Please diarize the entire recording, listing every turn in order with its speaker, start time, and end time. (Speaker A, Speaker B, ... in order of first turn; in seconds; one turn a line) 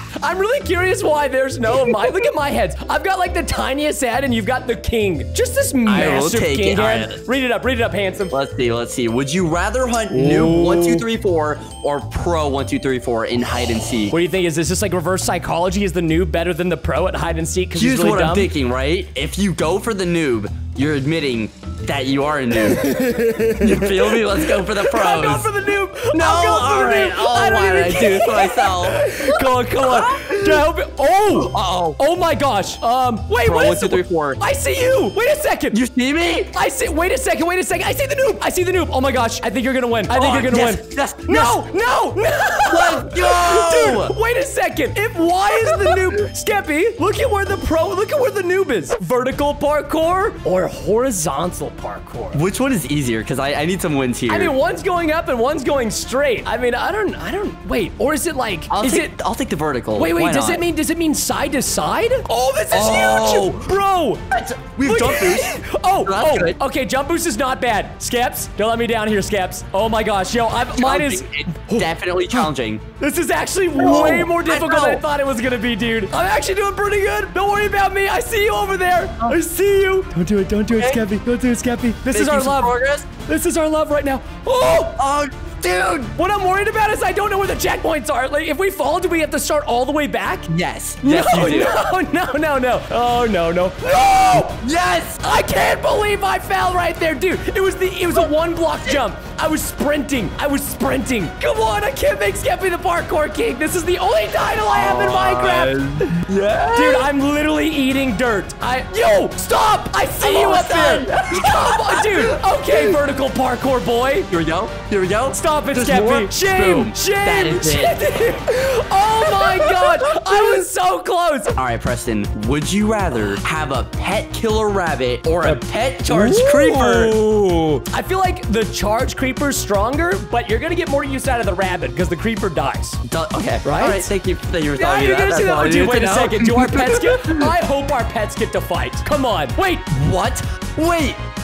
Speaker A: 0.2-8.3
Speaker B: 1.7-2.1
Speaker B: 5.8-7.2
Speaker B: 8.3-14.2
Speaker A: 10.1-11.0
Speaker A: 14.1-18.5
Speaker B: 17.7-22.9
Speaker A: 22.5-35.8
Speaker B: 23.6-25.5
Speaker B: 26.1-30.7
Speaker B: 31.3-32.0
Speaker B: 33.4-34.4
Speaker B: 35.7-36.5
Speaker A: 36.5-52.4
Speaker B: 40.1-41.6
Speaker B: 42.6-44.1
Speaker B: 45.5-46.2
Speaker B: 52.3-54.5
Speaker A: 54.3-59.1
Speaker B: 58.7-60.6
Speaker A: 59.9-64.2
Speaker B: 62.7-63.7
Speaker B: 64.3-66.5
Speaker A: 64.8-85.0
Speaker B: 70.7-72.8
Speaker B: 73.8-75.0
Speaker B: 80.7-81.0
Speaker B: 82.1-83.1
Speaker B: 84.7-86.1
Speaker A: 86.2-90.5
Speaker B: 90.5-91.8
Speaker A: 91.0-94.6
Speaker B: 94.3-95.2
Speaker A: 95.2-106.2
Speaker B: 104.7-107.1
Speaker A: 106.7-114.3
Speaker B: 110.2-113.0
Speaker B: 114.3-118.0
Speaker A: 115.3-121.5
Speaker B: 119.2-120.6
Speaker B: 121.5-127.1
Speaker A: 125.4-133.0
Speaker B: 133.0-137.5
Speaker A: 133.6-134.1
Speaker A: 134.8-139.9
Speaker B: 139.9-141.2